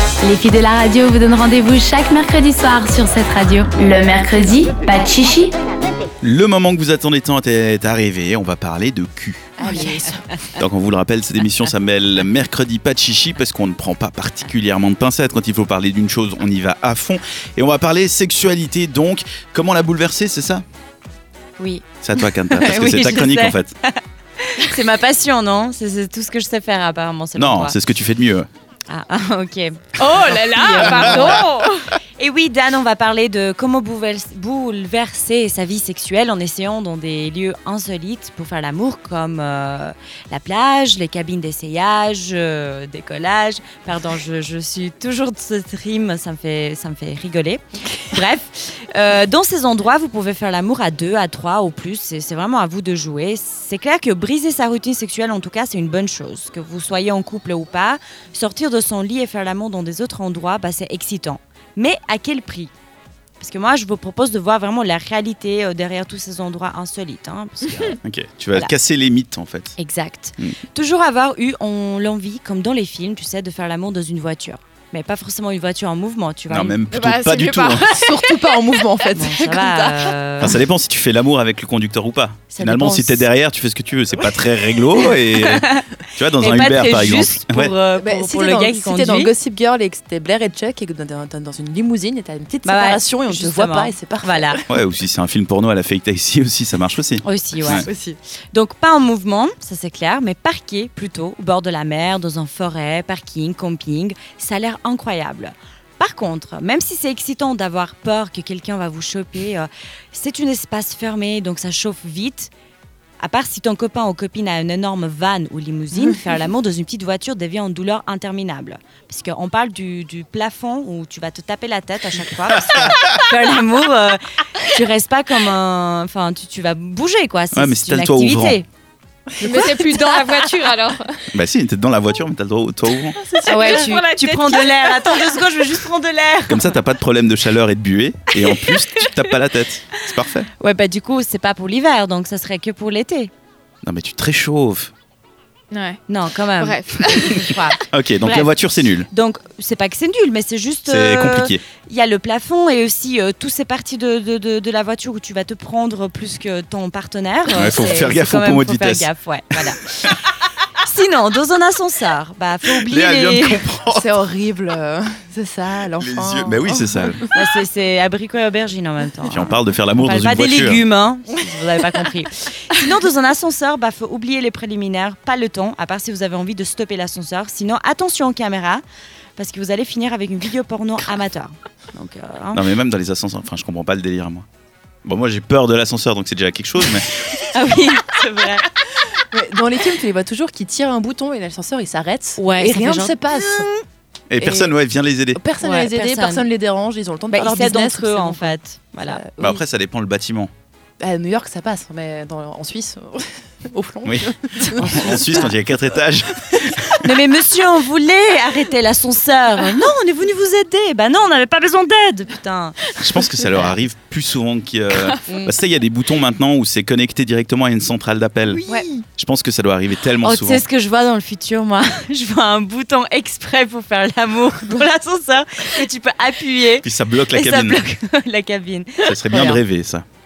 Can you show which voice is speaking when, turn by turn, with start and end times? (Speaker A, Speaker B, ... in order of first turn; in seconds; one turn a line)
Speaker A: 0.2-5.5
Speaker B: 6.2-9.6
Speaker C: 9.6-10.4
Speaker B: 10.6-20.6
Speaker D: 21.6-27.8
Speaker B: 22.0-23.8
Speaker B: 27.4-28.5
Speaker D: 28.9-31.5
Speaker E: 30.0-31.9
Speaker B: 30.8-31.4
Speaker D: 32.2-62.7
Speaker D: 63.4-68.0
Speaker B: 68.0-69.8
Speaker D: 69.8-76.8
Speaker B: 76.5-77.9
Speaker E: 76.9-78.8
Speaker C: 77.9-80.5
Speaker D: 79.1-80.6
Speaker B: 80.4-87.7
Speaker C: 82.6-83.3
Speaker D: 85.2-89.3
Speaker C: 88.0-94.6
Speaker D: 92.6-94.6
Speaker B: 94.7-97.9
Speaker D: 97.2-97.9
Speaker C: 97.7-98.2
Speaker D: 98.5-112.5
Speaker D: 113.2-128.7
Speaker B: 122.8-123.0
Speaker B: 127.5-128.6
Speaker C: 129.4-130.2
Speaker E: 129.4-131.2
Speaker B: 131.3-133.9
Speaker C: 133.3-134.0
Speaker D: 133.4-136.7
Speaker E: 133.4-134.3
Speaker B: 136.5-140.5
Speaker D: 138.5-139.3
Speaker D: 140.5-143.3
Speaker B: 143.8-144.9
Speaker E: 145.7-146.0
Speaker D: 146.1-160.2
Speaker E: 146.6-147.5
Speaker B: 147.9-149.1
Speaker B: 150.9-151.6
Speaker B: 157.5-159.1
Speaker D: 160.8-163.6
Speaker B: 162.9-164.1
Speaker C: 163.9-167.5
Speaker B: 166.0-167.2
Speaker D: 167.3-178.8
Speaker B: 169.3-170.8
Speaker D: 179.4-182.6
Speaker B: 182.5-184.5
Speaker B: 185.1-187.4
Speaker D: 187.4-188.7
Speaker C: 189.0-193.7
Speaker D: 192.4-193.8
Speaker B: 194.3-195.4
Speaker C: 194.4-194.8
Speaker C: 195.3-199.6
Speaker D: 195.6-196.5
Speaker D: 197.3-199.2
Speaker B: 199.4-200.5
Speaker C: 201.0-205.5
Speaker B: 204.1-206.9
Speaker D: 204.8-205.5
Speaker C: 206.4-206.8
Speaker D: 207.0-213.7
Speaker B: 213.0-218.6
Speaker C: 215.2-215.5
Speaker C: 218.4-219.0
Speaker B: 219.2-220.6
Speaker D: 220.2-229.6
Speaker B: 226.8-227.8
Speaker B: 229.0-230.0